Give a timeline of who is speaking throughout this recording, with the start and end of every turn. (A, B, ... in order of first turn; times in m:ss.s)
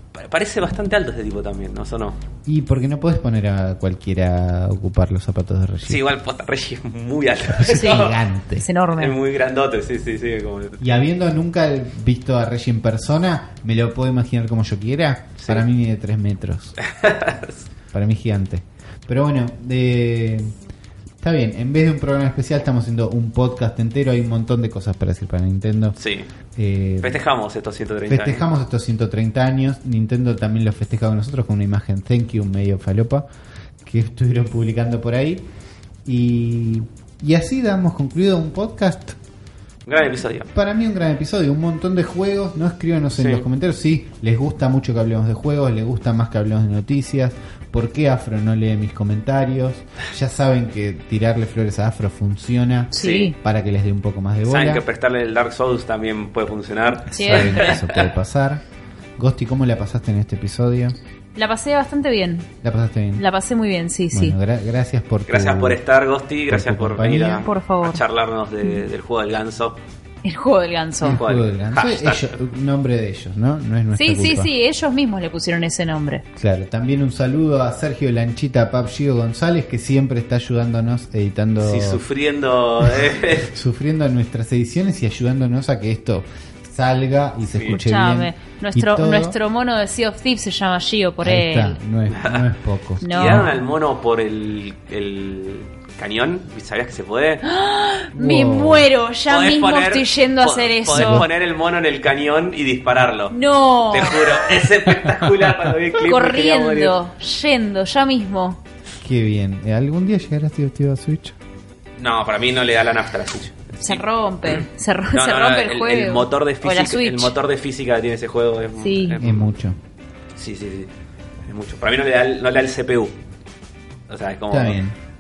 0:00.1-0:02.2 A
0:02.5-0:06.0 B
0:05.8-0:08.2 A
0:07.5-0:08.7 B
0:07.7-0:09.2 C
0:08.9-0:10.9 A
0:10.8-0:16.8 B
0:15.4-0:15.6 A
0:16.8-0:17.7 A
0:17.9-0:20.5 B
0:21.2-0:26.0 B
0:26.0-0:26.3 A
0:26.6-0:27.2 B
0:27.0-0:28.5 A
0:28.1-0:33.3 B
0:33.8-0:35.5 B
0:36.0-0:39.2 B
0:39.9-0:40.5 A
0:40.5-0:54.8 B
0:43.2-0:43.5 A
0:52.9-0:53.3 A
0:52.9-0:53.4 C
0:54.5-0:58.0 A
0:57.1-0:58.6 B
0:57.1-0:57.8 C
0:59.2-1:01.0 B
1:01.4-1:02.5 C
1:02.6-1:03.3 B
1:03.2-1:04.4 C
1:04.1-1:05.8 B
1:05.3-1:09.8 A
1:06.5-1:07.5 B
1:07.4-1:08.0 C
1:10.2-1:11.2 C
1:11.0-1:14.5 B
1:11.1-1:12.3 A
1:14.0-1:16.2 C
1:16.4-1:22.0 B
1:21.6-1:23.5 A
1:22.8-1:29.4 B
1:27.4-1:27.8 A
1:27.7-1:31.8 C
1:31.2-1:33.5 B
1:32.1-1:32.4 A
1:33.0-1:37.4 A
1:33.0-1:33.6 C
1:37.4-1:41.3 C
1:38.2-1:38.9 B
1:39.3-1:47.0 A
1:40.9-1:41.3 B
1:43.3-1:44.5 C
1:46.0-1:48.6 C
1:49.0-1:51.4 B
1:52.0-1:59.5 A
1:53.8-1:57.3 C
1:58.8-1:59.2 C
1:59.2-1:59.8 B
2:00.4-2:00.9 A
2:01.5-2:03.1 A
2:04.1-2:04.8 A
2:04.5-2:05.0 B